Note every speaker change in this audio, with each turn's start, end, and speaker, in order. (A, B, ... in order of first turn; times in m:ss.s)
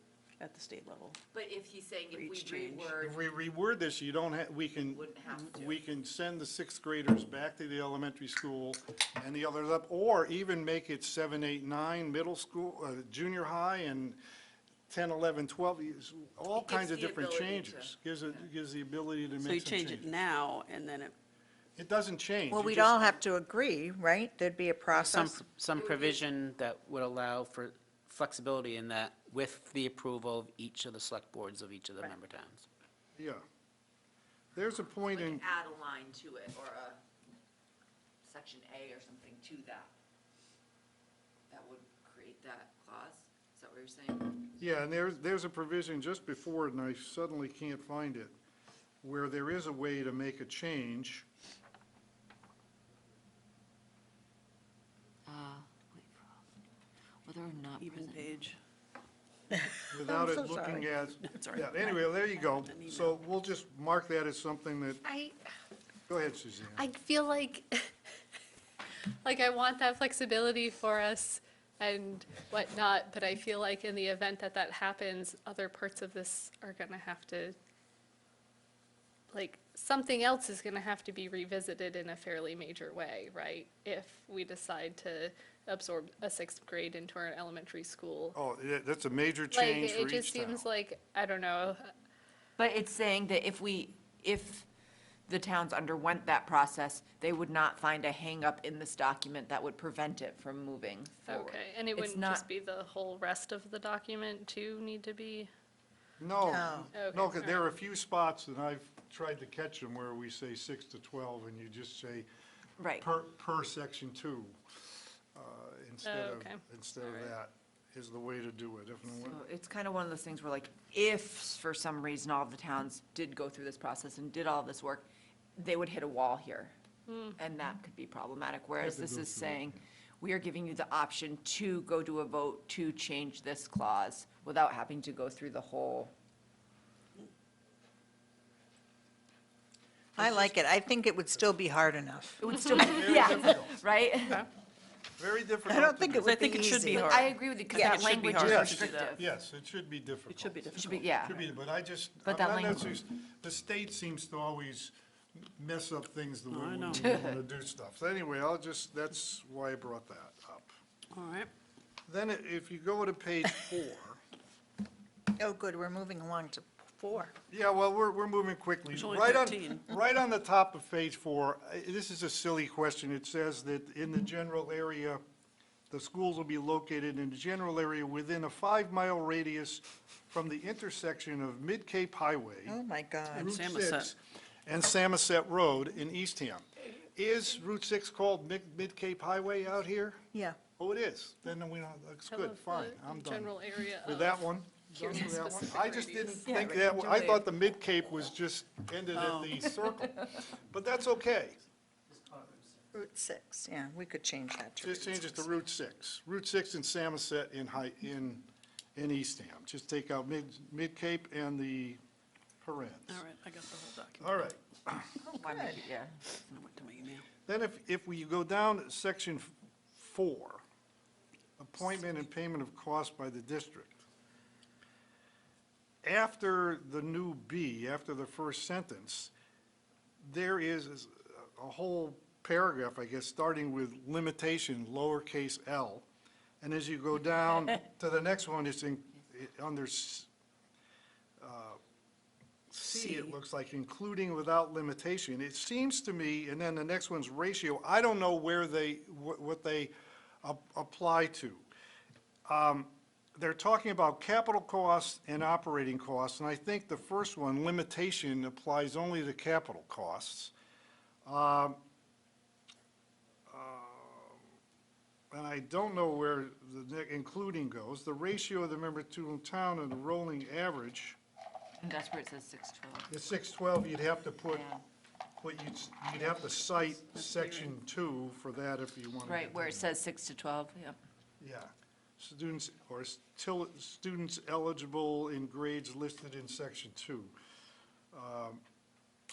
0:00.4-0:01.2 A
0:01.3-0:03.2 B
0:02.1-0:02.9 A
0:03.0-0:14.2 C
0:04.9-0:05.8 B
0:14.9-0:20.2 C
0:16.5-0:18.5 B
0:19.4-0:21.1 A
0:21.8-0:23.2 C
0:22.5-0:25.4 D
0:24.9-0:32.6 E
0:25.7-0:26.2 B
0:33.2-0:33.4 C
0:34.5-0:35.4 C
0:35.1-0:37.0 B
0:38.2-0:39.9 B
0:41.5-0:44.4 B
0:44.6-0:48.3 C
0:49.0-0:51.2 C
0:55.2-0:56.4 B
0:57.2-0:58.4 B
0:57.8-0:58.6 A
0:59.5-1:00.9 D
0:59.9-1:05.0 C
1:01.2-1:03.1 A
1:05.1-1:05.3 D
1:06.1-1:06.9 C
1:06.8-1:07.9 F
1:09.2-1:17.6 F
1:19.3-1:28.4 F
1:28.3-1:30.6 C
1:29.5-1:31.9 F
1:32.6-1:34.7 B
1:35.3-1:42.4 B
1:41.2-1:45.5 F
1:46.2-1:52.3 C
1:46.4-1:46.9 D
1:46.9-1:47.6 F
1:52.8-1:53.0 B
1:53.0-1:59.4 C
1:56.0-1:56.6 F
1:59.0-2:06.7 B
2:07.1-2:07.4 F
2:07.4-2:16.1 B
2:08.8-2:09.8 C
2:20.1-2:22.4 D
2:22.4-2:24.4 B
2:22.7-2:23.8 C
2:25.2-2:26.4 C
2:25.6-2:27.2 D
2:26.2-2:29.2 A
2:26.8-2:29.2 B
2:27.7-2:28.0 D
2:28.4-2:40.7 C
2:30.3-2:31.3 A
2:30.7-2:31.4 B
2:32.2-2:33.0 B
2:36.5-2:37.1 A
2:37.0-2:37.4 B
2:41.1-2:41.5 A
2:42.1-2:44.2 C
2:45.4-2:47.3 D
2:47.5-2:55.2 C
2:48.9-2:49.8 A
2:55.9-3:02.8 C
3:02.7-3:03.6 D
3:03.3-3:10.2 C
3:03.4-3:04.1 A
3:10.3-3:10.6 D
3:10.8-3:21.6 C
3:12.3-3:14.4 F
3:14.9-3:16.4 F
3:16.4-3:17.4 B
3:19.1-3:19.7 A
3:22.1-3:22.6 E
3:22.9-3:25.5 D
3:24.8-3:32.0 C
3:32.6-3:33.2 C
3:33.1-3:34.4 A
3:34.2-3:35.1 C
3:35.2-3:35.8 D
3:35.4-3:36.2 B
3:36.4-3:37.2 A
3:37.4-3:40.6 C
3:41.6-3:44.0 C
3:46.0-3:49.3 C
3:50.2-3:56.0 C
3:56.6-4:00.3 C
4:01.4-4:01.8 C
4:02.7-4:11.6 C
4:02.8-4:03.3 D
4:12.5-4:20.5 C
4:21.2-4:21.8 C
4:23.5-4:24.4 C
4:25.3-4:31.2 C
4:31.8-4:33.1 B
4:33.1-4:34.6 C
4:34.5-4:34.8 B
4:35.4-4:39.9 C
4:37.0-4:37.7 A
4:39.2-4:41.0 B
4:41.4-4:47.3 C
4:48.1-4:48.6 C